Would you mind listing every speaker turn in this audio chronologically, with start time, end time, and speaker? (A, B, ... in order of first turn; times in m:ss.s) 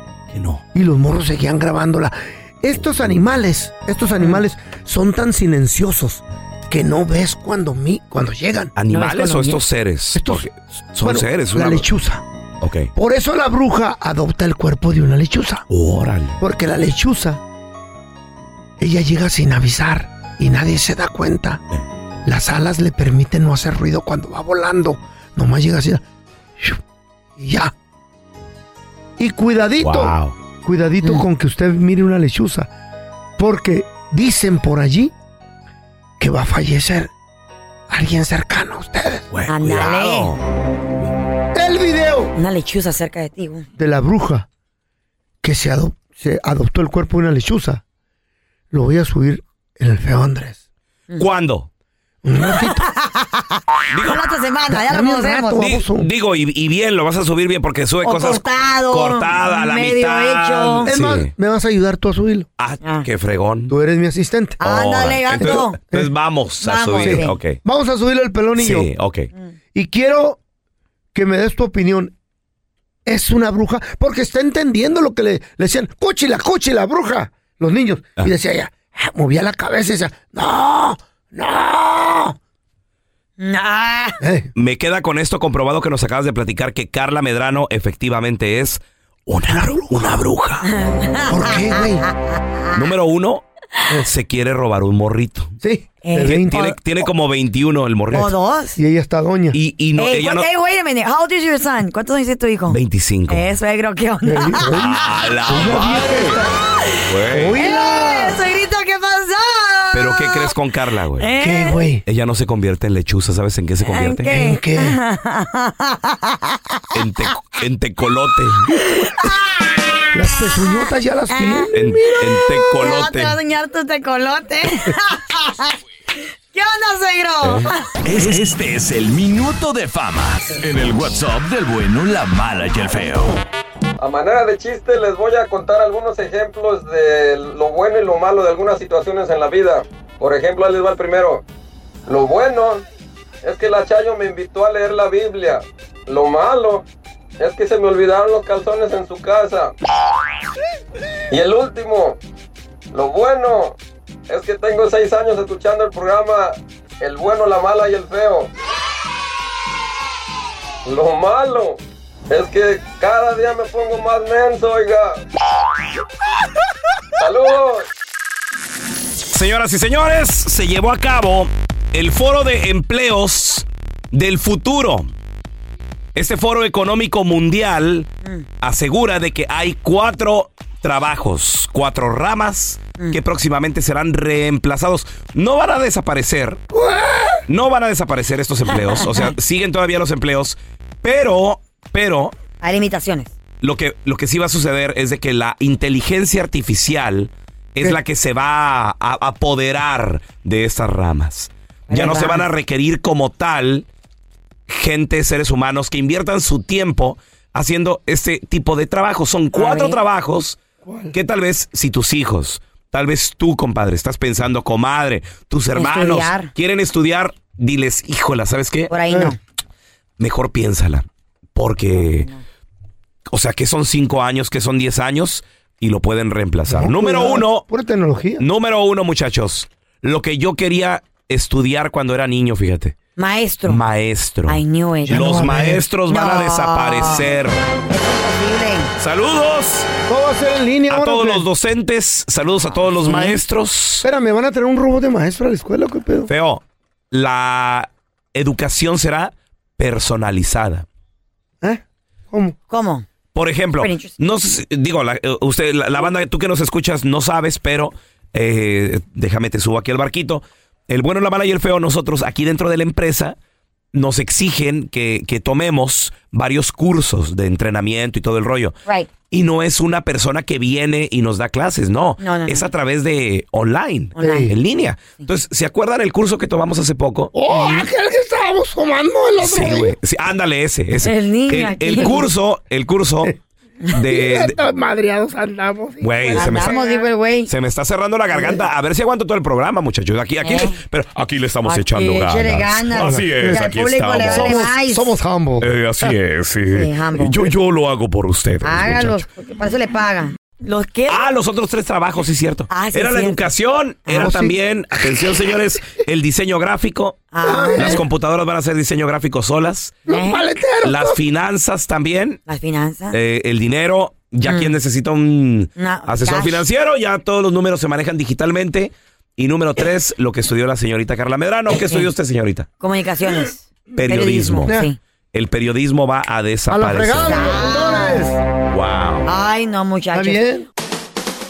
0:00.3-0:00.6 A
0:00.7-0:09.4 B
0:08.8-0:11.9 A
0:08.9-0:09.5 C
0:10.1-0:10.5 B
0:11.0-0:12.2 B
0:12.6-0:12.9 A
0:13.0-0:15.6 B
0:15.7-0:16.4 A
0:16.4-0:17.4 B
0:18.8-0:21.6 B
0:22.2-0:26.0 B
0:27.4-0:27.7 B
0:29.2-0:32.7 B
0:29.8-0:30.4 A
0:33.4-0:35.1 B
0:36.2-0:37.1 B
0:37.9-0:39.3 B
0:39.3-0:40.4 A
0:39.5-0:40.3 C
0:41.5-0:42.3 B
0:42.4-0:43.7 C
0:43.8-0:44.5 B
0:45.4-0:47.8 B
0:48.7-0:50.6 B
0:51.2-0:51.7 A
0:52.2-0:52.8 B
0:52.5-0:55.7 C
0:53.9-0:54.2 A
0:54.7-0:56.1 B
0:55.6-1:01.3 A
0:58.0-1:00.9 C
1:00.9-1:02.5 B
1:02.6-1:03.7 A
1:02.8-1:03.1 C
1:03.7-1:04.6 B
1:04.6-1:05.8 C
1:04.6-1:07.6 A
1:05.4-1:06.1 B
1:06.6-1:07.4 C
1:07.0-1:08.9 B
1:08.6-1:09.3 A
1:09.7-1:10.4 B
1:11.1-1:12.1 B
1:13.1-1:22.4 B
1:23.4-1:24.2 C
1:24.2-1:24.5 B
1:24.6-1:30.6 A
1:29.4-1:30.3 B
1:30.7-1:32.1 C
1:31.3-1:32.0 B
1:32.7-1:33.4 A
1:34.0-1:35.5 A
1:35.6-1:36.7 B
1:36.0-1:36.8 C
1:36.2-1:38.4 A
1:38.1-1:38.8 C
1:38.8-1:39.6 B
1:39.5-1:40.5 A
1:40.0-1:44.7 C
1:42.7-1:43.5 A
1:44.2-1:46.5 B
1:44.7-1:46.4 A
1:47.1-1:47.6 A
1:47.3-1:48.4 B
1:47.6-1:50.6 C
1:49.9-1:51.3 A
1:51.2-1:51.8 C
1:51.4-1:52.0 B
1:52.1-1:54.3 A
1:53.8-1:56.4 C
1:54.3-1:55.0 B
1:56.9-1:58.7 A
1:58.9-1:59.9 C
2:00.1-2:01.9 B
2:01.3-2:05.7 C
2:01.7-2:03.4 A
2:06.5-2:07.9 C
2:07.4-2:07.7 A
2:08.0-2:13.4 D
2:14.0-2:21.4 E
2:22.1-2:22.8 E
2:23.4-2:26.8 E
2:27.4-2:29.7 E
2:31.3-2:32.2 E
2:32.9-2:33.8 E
2:34.3-2:38.5 E
2:40.8-2:41.8 E
2:42.3-2:45.2 E
2:47.2-2:47.9 E
2:49.3-2:55.1 A
2:56.2-2:58.1 A
2:58.6-3:06.6 A
3:06.7-3:07.4 B
3:07.5-3:12.3 A
3:08.7-3:09.3 C
3:12.6-3:13.3 C
3:13.6-3:23.9 A
3:21.9-3:22.5 C
3:24.7-3:30.6 A
3:29.5-3:30.0 C
3:30.8-3:31.1 B
3:31.1-3:38.9 A
3:35.8-3:36.5 C
3:38.9-3:39.4 C
3:39.1-3:39.4 B
3:40.2-3:42.3 A
3:42.0-3:42.4 C
3:43.3-3:47.6 A
3:46.7-3:48.4 B
3:48.4-3:53.0 A
3:53.2-3:53.8 C
3:53.7-3:57.6 A
3:54.5-3:55.5 C
3:55.0-3:55.8 B
3:56.1-3:57.3 C
3:57.9-3:58.9 C
3:59.0-3:59.9 A
4:00.1-4:01.5 B
4:00.9-4:04.1 A
4:02.7-4:03.4 C
4:04.0-4:06.3 B
4:06.3-4:10.9 A
4:11.6-4:12.6 B
4:12.7-4:13.1 C
4:13.3-4:23.4 A
4:13.8-4:14.2 C
4:23.9-4:28.8 A
4:28.8-4:29.1 C
4:29.3-4:37.3 A
4:32.2-4:32.7 C
4:34.2-4:34.5 B
4:34.2-4:34.5 C
4:37.3-4:39.9 B
4:39.4-4:43.3 A
4:41.0-4:42.3 C
4:43.9-4:44.6 A
4:44.0-4:47.0 B
4:46.0-4:46.8 A
4:46.3-4:47.5 C
4:47.5-4:54.7 A
4:48.3-4:48.6 C
4:50.4-4:50.8 C
4:51.6-4:55.1 C
4:52.9-4:53.7 B
4:54.2-4:55.7 B
4:55.6-4:59.2 A
4:56.7-4:57.5 C
4:58.6-5:01.2 C
5:01.1-5:10.0 A
5:02.7-5:03.4 C
5:04.1-5:04.6 B
5:07.3-5:08.0 C
5:07.4-5:08.0 B
5:10.1-5:11.2 B
5:10.1-5:10.5 C
5:10.8-5:12.4 A
5:12.5-5:13.2 C
5:13.1-5:22.7 A
5:14.4-5:14.8 C
5:15.8-5:16.7 C
5:22.8-5:25.0 C
5:24.0-5:24.8 A
5:25.3-5:27.5 A
5:26.7-5:28.4 B
5:27.2-5:28.3 C
5:28.7-5:29.3 A
5:29.2-5:30.4 C
5:30.1-5:30.7 B